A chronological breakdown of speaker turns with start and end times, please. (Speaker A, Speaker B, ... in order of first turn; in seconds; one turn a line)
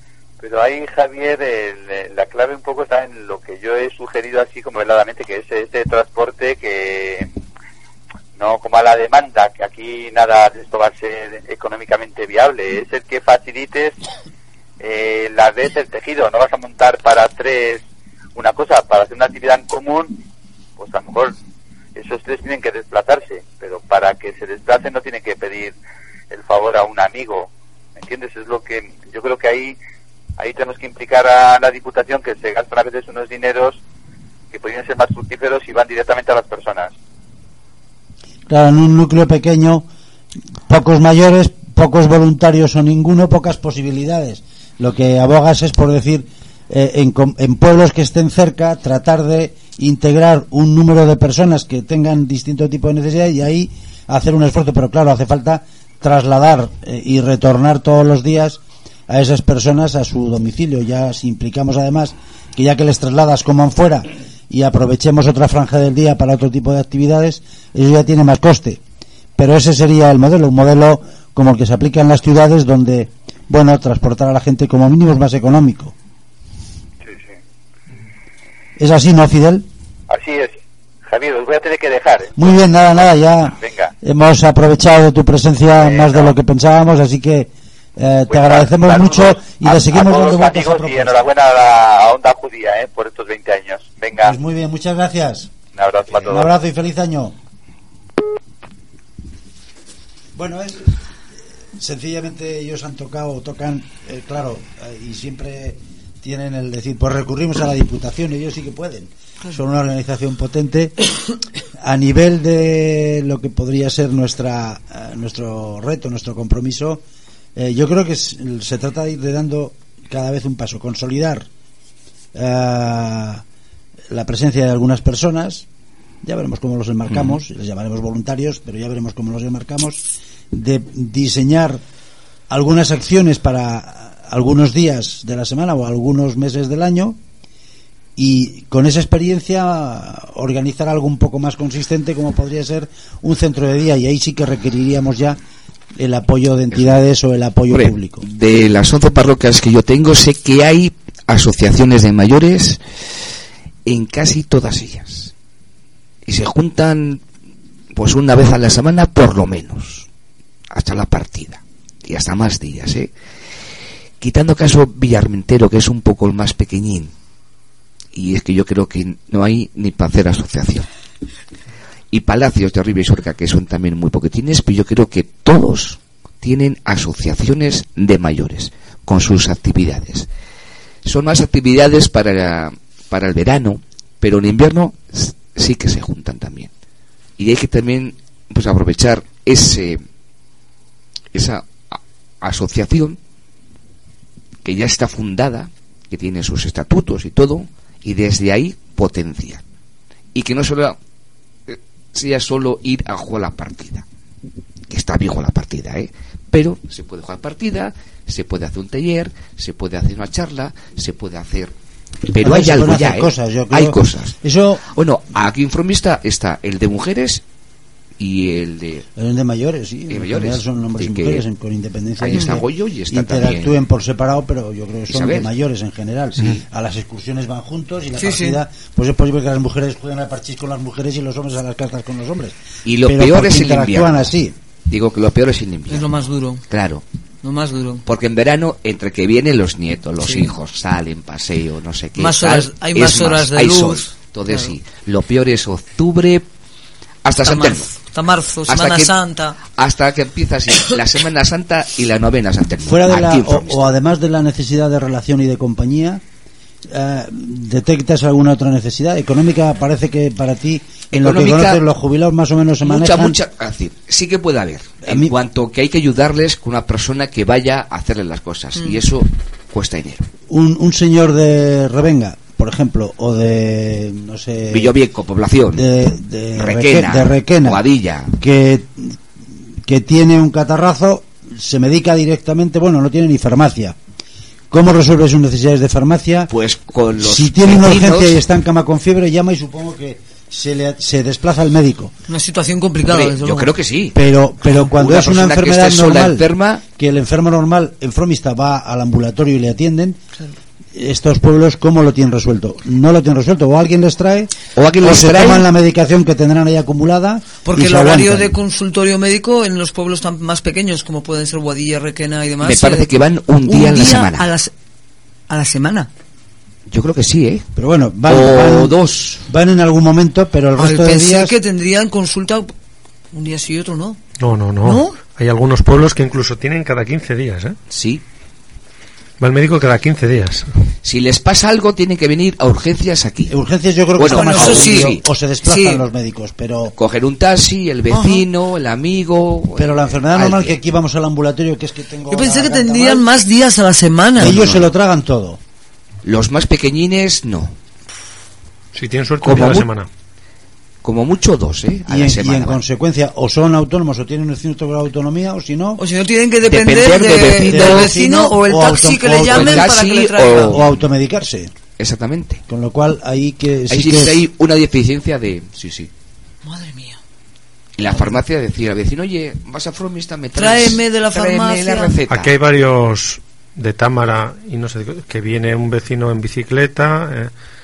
Speaker A: 0.4-7.3
Speaker A: 8.4-13.9
Speaker A: 14.8-17.8
Speaker A: 18.3-20.1
Speaker A: 20.8-21.3
Speaker A: 21.9-25.8
Speaker A: 26.3-29.8
Speaker A: 30.4-33.8
Speaker A: 34.5-36.9
Speaker B: 38.5-39.9
Speaker B: 40.7-68.8
Speaker B: 69.4-75.9
Speaker B: 78.8-79.7
Speaker A: 80.1-80.5
Speaker A: 81.1-82.4
Speaker B: 82.3-91.3
Speaker A: 83.5-83.9
Speaker A: 85.8-86.3
Speaker A: 88.3-94.3
Speaker B: 94.2-95.5
Speaker A: 95.8-96.5
Speaker B: 96.1-97.3
Speaker B: 100.3-101.0
Speaker B: 101.8-110.9
Speaker B: 111.8-117.0
Speaker B: 117.5-121.5
Speaker B: 122.3-123.4
Speaker B: 124.1-125.7
Speaker B: 126.2-131.8
Speaker C: 127.1-127.4
Speaker B: 132.5-137.2
Speaker B: 138.2-145.4
Speaker B: 145.9-148.2
Speaker C: 146.7-147.0
Speaker C: 147.7-152.8
Speaker C: 153.8-155.3
Speaker C: 156.3-157.2
Speaker C: 157.9-160.1
Speaker C: 160.7-163.1
Speaker C: 164.2-167.1
Speaker C: 168.1-170.9
Speaker C: 172.1-180.3
Speaker C: 181.0-186.7
Speaker C: 187.4-190.0
Speaker C: 191.3-193.2
Speaker C: 194.6-199.6
Speaker C: 200.3-201.0
Speaker C: 201.7-204.0
Speaker C: 204.9-211.7
Speaker C: 212.3-217.4
Speaker B: 212.4-214.8
Speaker C: 218.2-219.1
Speaker B: 219.2-234.5
Speaker C: 220.1-221.4
Speaker C: 222.2-223.8
Speaker C: 225.1-225.5
Speaker D: 228.2-228.6
Speaker C: 232.8-234.3
Speaker C: 234.9-236.2
Speaker D: 235.9-236.6
Speaker C: 236.7-237.0
Speaker D: 237.4-238.0
Speaker C: 238.0-246.4
Speaker D: 240.2-240.5
Speaker D: 242.2-244.8
Speaker C: 247.2-248.0
Speaker D: 247.4-249.6
Speaker C: 248.7-253.9
Speaker B: 252.8-256.2
Speaker B: 256.9-263.4
Speaker C: 261.1-261.8
Speaker C: 262.8-270.3
Speaker B: 265.0-265.3
Speaker B: 270.5-275.0
Speaker C: 274.7-275.9
Speaker B: 275.7-277.8
Speaker C: 276.5-278.4
Speaker B: 278.4-279.2
Speaker B: 279.8-283.9
Speaker B: 284.7-286.5
Speaker C: 286.5-288.4
Speaker B: 287.2-292.1
Speaker D: 292.3-293.8
Speaker C: 293.0-296.8
Speaker B: 294.1-296.4
Speaker B: 297.0-300.2
Speaker B: 300.9-308.5
Speaker C: 304.8-305.6
Speaker D: 307.6-313.1
Speaker C: 312.6-314.5
Speaker D: 313.6-314.7
Speaker D: 315.5-316.1
Speaker C: 316.9-317.7
Speaker B: 317.8-321.5
Speaker C: 318.3-319.4
Speaker D: 320.8-322.7
Speaker D: 323.3-324.2
Speaker E: 324.4-327.8
Speaker D: 324.8-325.2
Speaker C: 327.9-328.2
Speaker E: 329.4-330.7
Speaker C: 331.0-333.6
Speaker B: 333.5-336.9
Speaker C: 334.1-335.2
Speaker D: 334.2-336.0
Speaker C: 336.9-340.8
Speaker D: 338.1-338.4
Speaker B: 339.8-343.3
Speaker D: 342.3-344.6
Speaker B: 344.4-345.6
Speaker C: 344.4-344.9
Speaker C: 346.2-347.7
Speaker E: 348.9-350.1
Speaker C: 349.4-349.9
Speaker C: 351.0-352.8
Speaker B: 352.1-356.0
Speaker D: 356.0-360.8
Speaker C: 356.6-358.1
Speaker B: 357.7-360.0
Speaker C: 359.4-360.8
Speaker B: 360.7-361.7
Speaker C: 362.0-362.6
Speaker B: 362.7-364.4
Speaker C: 363.9-366.1
Speaker D: 366.6-367.2
Speaker C: 368.0-372.5
Speaker D: 370.6-372.2
Speaker E: 372.3-377.5